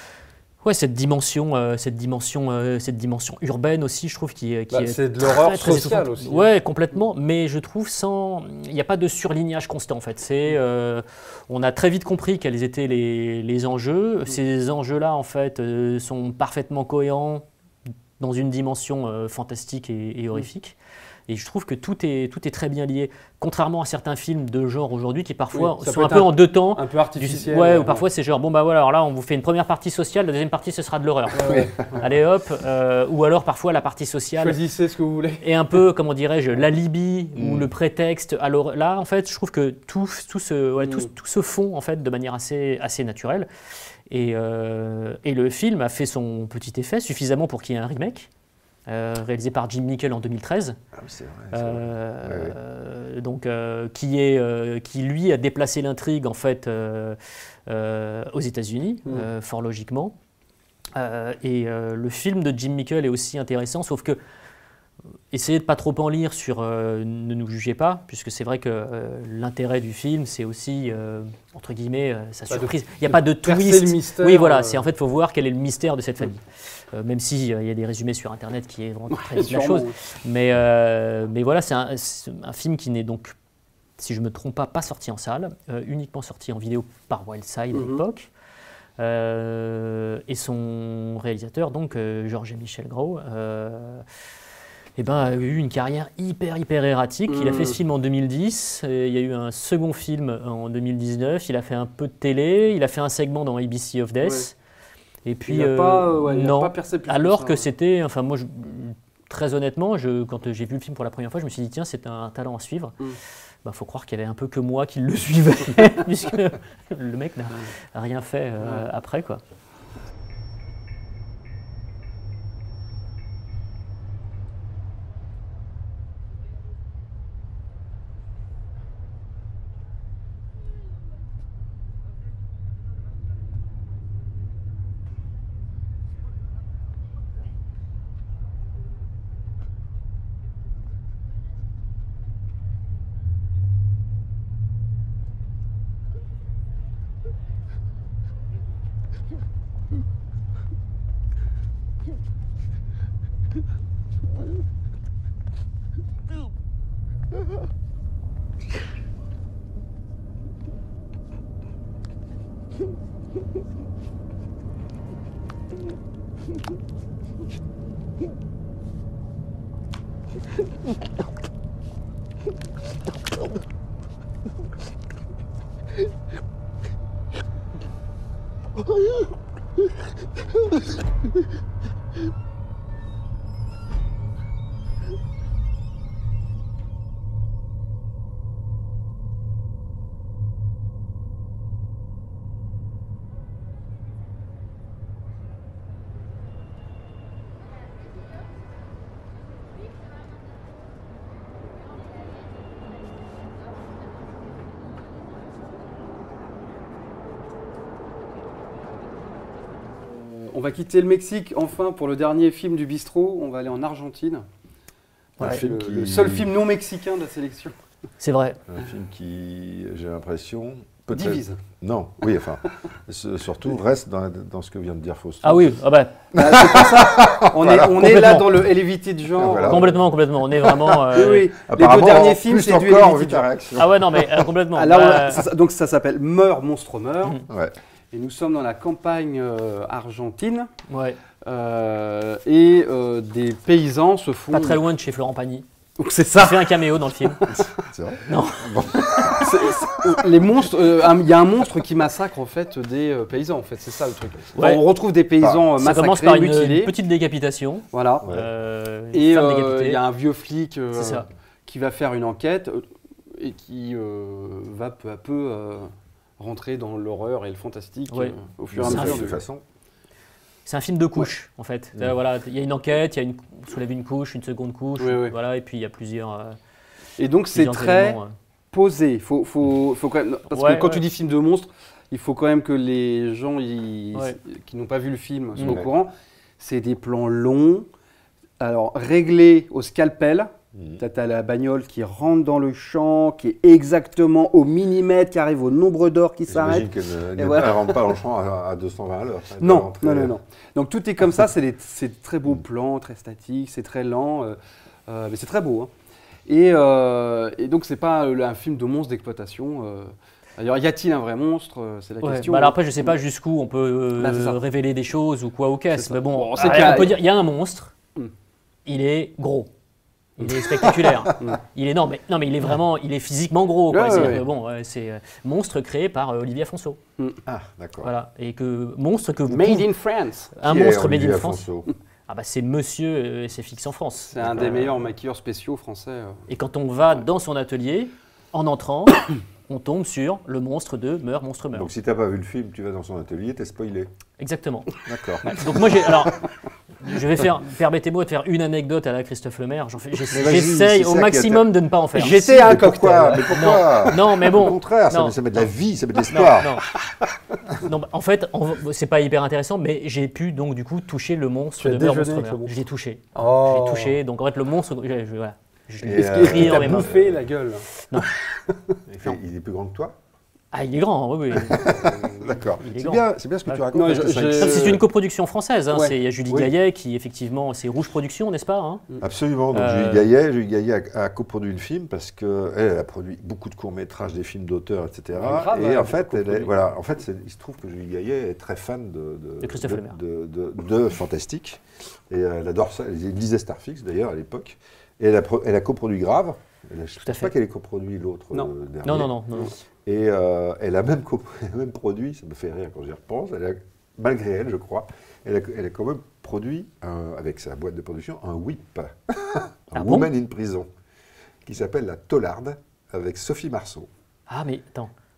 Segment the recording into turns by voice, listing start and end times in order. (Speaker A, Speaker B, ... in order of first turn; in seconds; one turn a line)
Speaker A: 0.6-17.4
Speaker B: 4.7-6.5
Speaker A: 18.2-20.8
Speaker A: 21.3-34.6
Speaker B: 25.5-28.0
Speaker B: 31.3-32.1
Speaker C: 31.4-31.7
Speaker B: 34.4-35.8
Speaker A: 35.4-43.5
Speaker C: 37.4-37.7
Speaker B: 40.8-41.1
Speaker A: 44.1-48.3
Speaker A: 48.9-50.8
Speaker C: 50.9-52.6
Speaker A: 51.5-57.2
Speaker A: 57.7-60.1
Speaker A: 60.9-64.2
Speaker A: 65.3-83.3
Speaker B: 72.5-74.8
Speaker B: 79.1-79.9
Speaker A: 84.0-88.3
Speaker B: 87.7-88.0
Speaker A: 89.0-94.0
Speaker A: 95.0-104.5
Speaker B: 97.3-97.8
Speaker B: 104.2-104.5
Speaker A: 105.2-113.0
Speaker B: 105.5-107.7
Speaker A: 113.6-119.4
Speaker B: 118.6-118.9
Speaker B: 210.0-214.4
Speaker A: 215.4-215.6
Speaker B: 215.4-217.7
Speaker C: 215.4-216.6
Speaker A: 218.2-218.6
Speaker C: 218.7-225.7
Speaker B: 221.1-221.6
Speaker A: 225.4-226.2
Speaker C: 226.3-228.0
Speaker B: 226.3-230.0
Speaker A: 227.9-228.5
Speaker C: 229.3-229.9
Speaker A: 229.6-231.5
Speaker B: 230.6-233.5
Speaker C: 231.6-234.3
Speaker A: 233.8-235.4
Speaker B: 234.7-237.4
Speaker C: 237.5-237.7
Speaker B: 238.1-240.7
Speaker A: 240.9-241.2
Speaker B: 241.4-244.8
Speaker A: 244.5-245.7
Speaker B: 246.0-247.6
Speaker A: 246.3-247.4
Speaker C: 247.5-249.5
Speaker A: 248.3-249.5
Speaker B: 249.3-256.9
Speaker A: 254.6-254.8
Speaker C: 255.4-255.7
Speaker A: 255.8-260.0
Speaker B: 257.9-258.3
Speaker C: 258.2-258.5
Speaker B: 259.1-269.4
Speaker A: 260.9-261.3
Speaker A: 268.1-269.2
Speaker C: 268.7-269.6
Speaker A: 270.6-276.6
Speaker B: 275.0-275.3
Speaker B: 277.2-278.2
Speaker A: 277.5-278.3
Speaker B: 278.7-287.9
Speaker A: 280.5-281.0
Speaker C: 285.6-285.9
Speaker B: 288.6-298.1
Speaker C: 290.7-291.0
Speaker C: 296.5-300.4
Speaker B: 299.6-305.9
Speaker B: 306.5-313.1
Speaker A: 312.2-317.9
Speaker B: 314.2-314.6
Speaker B: 315.9-317.2
Speaker A: 318.9-319.7
Speaker A: 320.4-327.0
Speaker C: 320.8-321.3
Speaker B: 323.9-324.4
Speaker C: 327.4-328.1
Speaker A: 328.0-329.9
Speaker B: 329.5-330.5
Speaker A: 330.6-331.6
Speaker C: 330.6-331.9
Speaker A: 332.3-334.6
Speaker B: 334.3-336.4
Speaker C: 334.4-334.9
Speaker A: 336.5-341.9
Speaker C: 341.7-344.1
Speaker A: 344.4-344.9
Speaker C: 345.1-346.0
Speaker A: 345.4-346.4
Speaker A: 347.0-352.6
Speaker C: 350.3-351.7
Speaker B: 352.1-353.7
Speaker C: 352.4-357.7
Speaker A: 353.5-355.4
Speaker A: 356.3-356.9
Speaker A: 357.8-367.1
Speaker B: 361.8-362.7
Speaker B: 363.3-364.2
Speaker C: 366.0-367.4
Speaker B: 366.1-368.9
Speaker C: 369.1-370.1
Speaker A: 370.7-371.9
Speaker C: 371.6-375.0
Speaker B: 371.8-372.6
Speaker A: 372.8-379.0
Speaker B: 373.9-375.0
Speaker B: 375.9-376.7
Speaker C: 379.2-399.4
Speaker A: 379.7-380.2
Speaker B: 385.4-386.8
Speaker A: 389.6-390.2
Speaker A: 397.2-397.5
Speaker A: 399.0-399.7
Speaker C: 400.0-410.9
Speaker A: 409.9-410.3
Speaker C: 411.6-414.1
Speaker A: 414.5-415.1